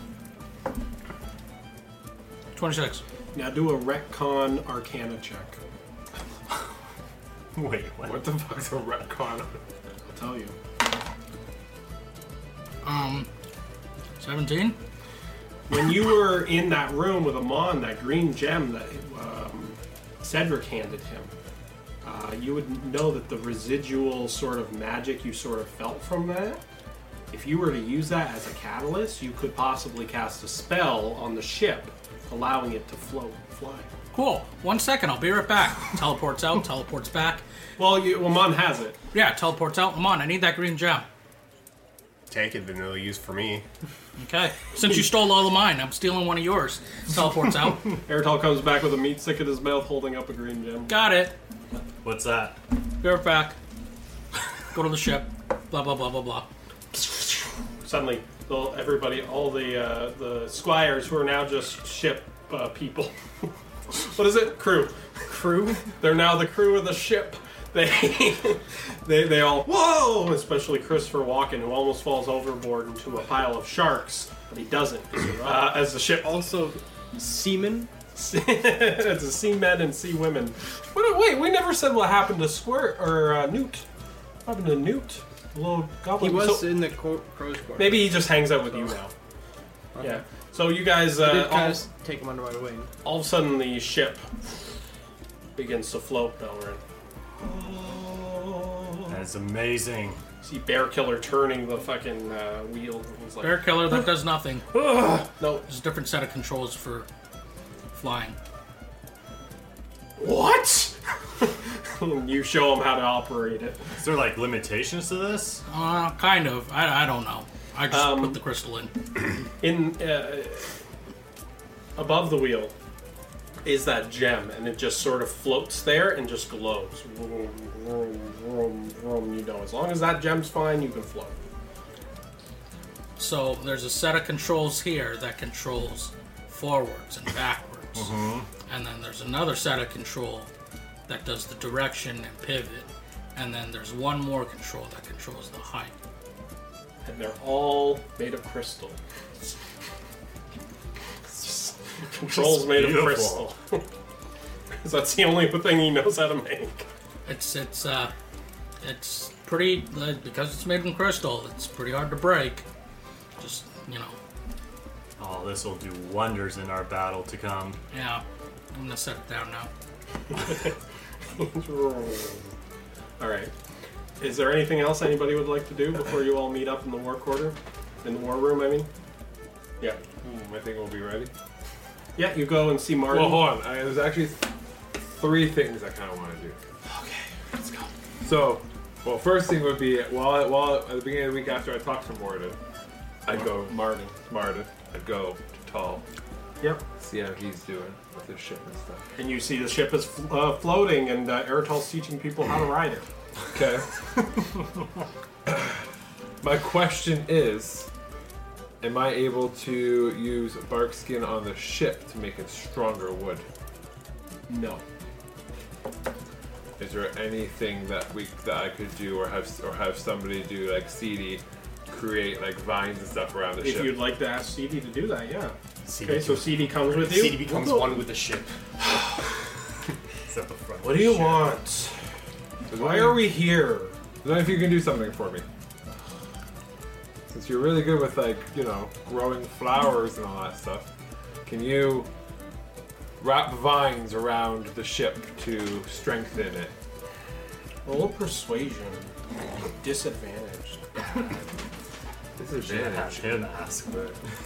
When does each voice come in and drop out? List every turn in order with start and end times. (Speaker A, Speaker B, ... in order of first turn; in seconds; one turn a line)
Speaker A: 2.5-3.0
Speaker B: 3.3-5.6
Speaker C: 7.5-8.2
Speaker D: 8.0-9.6
Speaker B: 10.1-10.6
Speaker A: 12.8-13.3
Speaker A: 14.2-14.8
Speaker B: 15.7-21.3
Speaker B: 22.0-26.6
Speaker B: 27.3-33.9
Speaker A: 34.1-37.4
Speaker B: 37.8-39.0
Speaker A: 39.1-41.0
Speaker E: 42.3-43.6
Speaker A: 44.2-48.0
Speaker B: 48.0-50.9
Speaker A: 50.9-51.3
Speaker C: 52.0-52.6
Speaker A: 53.0-53.5
Speaker A: 54.7-56.5
Speaker B: 57.8-63.1
Speaker B: 63.9-76.3
Speaker F: 75.4-77.9
Speaker B: 78.2-83.8
Speaker B: 84.5-86.8
Speaker F: 86.2-88.9
Speaker B: 87.8-89.1
Speaker F: 89.9-90.2
Speaker B: 90.0-91.8
Speaker F: 91.2-92.9
Speaker B: 93.0-94.3
Speaker B: 95.5-96.8
Speaker B: 97.4-99.2
Speaker C: 99.1-100.2
Speaker B: 100.4-104.1
Speaker A: 103.4-107.1
Speaker B: 104.8-105.6
Speaker A: 107.9-108.4
Speaker B: 110.2-113.8
Speaker C: 114.0-115.6
Speaker A: 115.7-118.9
Speaker B: 117.9-118.4
Speaker B: 119.6-120.7
Speaker B: 122.0-122.7
Speaker B: 123.6-131.4
Speaker A: 133.2-138.1
Speaker C: 137.9-138.5
Speaker A: 138.7-140.5
Speaker A: 141.1-145.9
Speaker B: 147.0-149.0
Speaker B: 151.3-153.8
Speaker C: 152.3-153.5
Speaker B: 154.8-156.8
Speaker A: 157.2-158.1
Speaker A: 158.8-162.6
Speaker A: 163.4-164.2
Speaker C: 165.2-167.8
Speaker A: 167.9-169.7
Speaker B: 170.3-170.7
Speaker B: 171.4-172.5
Speaker B: 173.2-173.5
Speaker B: 174.2-178.9
Speaker D: 180.1-181.3
Speaker B: 182.2-183.7
Speaker D: 183.1-186.6
Speaker B: 186.8-187.9
Speaker D: 188.2-192.6
Speaker D: 193.2-196.0
Speaker B: 193.3-194.2
Speaker D: 197.0-199.1
Speaker B: 199.2-203.1
Speaker D: 203.5-204.0
Speaker D: 205.5-205.8
Speaker D: 206.4-207.9
Speaker D: 208.8-213.4
Speaker B: 214.5-214.8
Speaker D: 216.8-224.0
Speaker B: 223.6-227.8
Speaker E: 225.8-228.5
Speaker C: 230.3-231.6
Speaker B: 230.8-232.0
Speaker D: 232.7-233.4
Speaker B: 232.7-234.0
Speaker D: 234.2-235.4
Speaker D: 237.3-240.9
Speaker D: 241.4-242.1
Speaker D: 243.2-246.7
Speaker B: 247.8-249.1
Speaker B: 249.8-250.9
Speaker D: 252.4-253.5
Speaker C: 252.6-254.2